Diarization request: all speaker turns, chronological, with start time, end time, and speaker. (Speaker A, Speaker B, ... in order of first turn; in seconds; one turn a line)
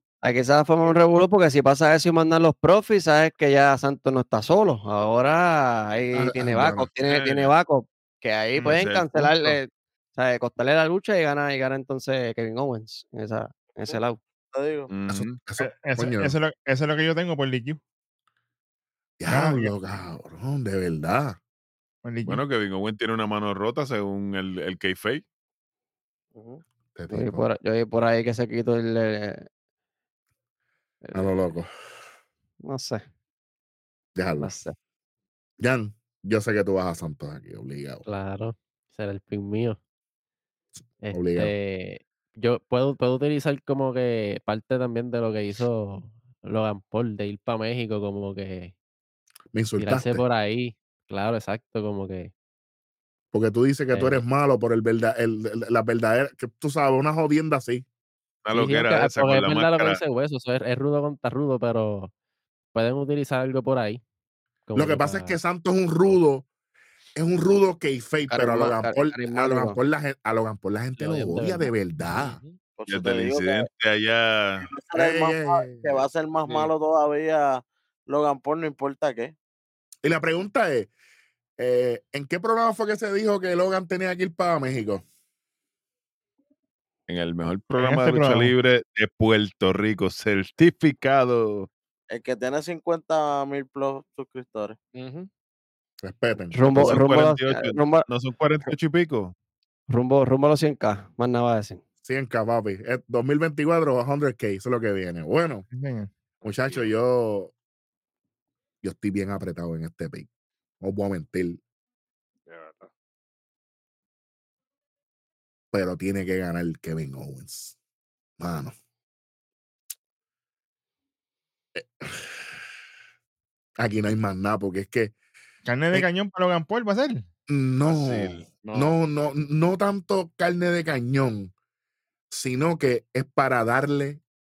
Speaker A: 0.2-14.2
Speaker B: 6.1-6.9
Speaker C: 7.0-7.5
Speaker D: 8.6-9.3
Speaker C: 8.8-9.6
Speaker E: 14.5-14.9
Speaker C: 14.9-15.4
Speaker B: 15.1-16.3
Speaker D: 15.6-17.8
Speaker B: 19.2-21.4
Speaker D: 19.3-19.7
Speaker D: 22.0-22.4
Speaker C: 22.2-25.2
Speaker E: 26.4-26.6
Speaker B: 26.9-27.4
Speaker A: 27.1-29.5
Speaker A: 31.0-31.4
Speaker B: 31.1-31.7
Speaker A: 32.6-33.0
Speaker B: 34.1-34.5
Speaker A: 34.4-34.7
Speaker B: 35.6-38.0
Speaker F: 38.0-39.8
Speaker F: 41.0-48.7
Speaker B: 41.1-41.5
Speaker B: 49.5-50.2
Speaker F: 49.8-52.3
Speaker B: 53.3-57.9
Speaker F: 53.9-54.2
Speaker C: 58.4-60.0
Speaker F: 58.5-62.1
Speaker F: 62.7-64.0
Speaker F: 64.7-65.4
Speaker B: 64.7-66.5
Speaker B: 67.2-72.4
Speaker A: 68.3-69.8
Speaker F: 71.0-71.7
Speaker G: 72.1-72.6
Speaker E: 72.8-73.7
Speaker C: 72.9-74.7
Speaker E: 74.6-79.3
Speaker B: 74.9-76.0
Speaker G: 76.5-76.7
Speaker B: 80.0-80.9
Speaker B: 81.6-85.0
Speaker C: 87.1-91.7
Speaker D: 87.8-88.5
Speaker E: 92.1-94.8
Speaker G: 94.9-95.3
Speaker B: 96.0-97.0
Speaker A: 96.5-98.1
Speaker C: 96.7-99.3
Speaker A: 99.9-101.8
Speaker B: 102.0-105.7
Speaker D: 105.7-106.1
Speaker G: 106.4-106.9
Speaker B: 106.4-107.5
Speaker B: 108.8-110.3
Speaker B: 110.8-111.6
Speaker G: 112.5-112.9
Speaker B: 115.7-117.7
Speaker B: 118.4-118.7
Speaker B: 121.7-122.3
Speaker B: 123.8-125.1
Speaker D: 125.7-127.3
Speaker B: 127.5-131.5
Speaker G: 127.8-128.9
Speaker B: 132.3-134.2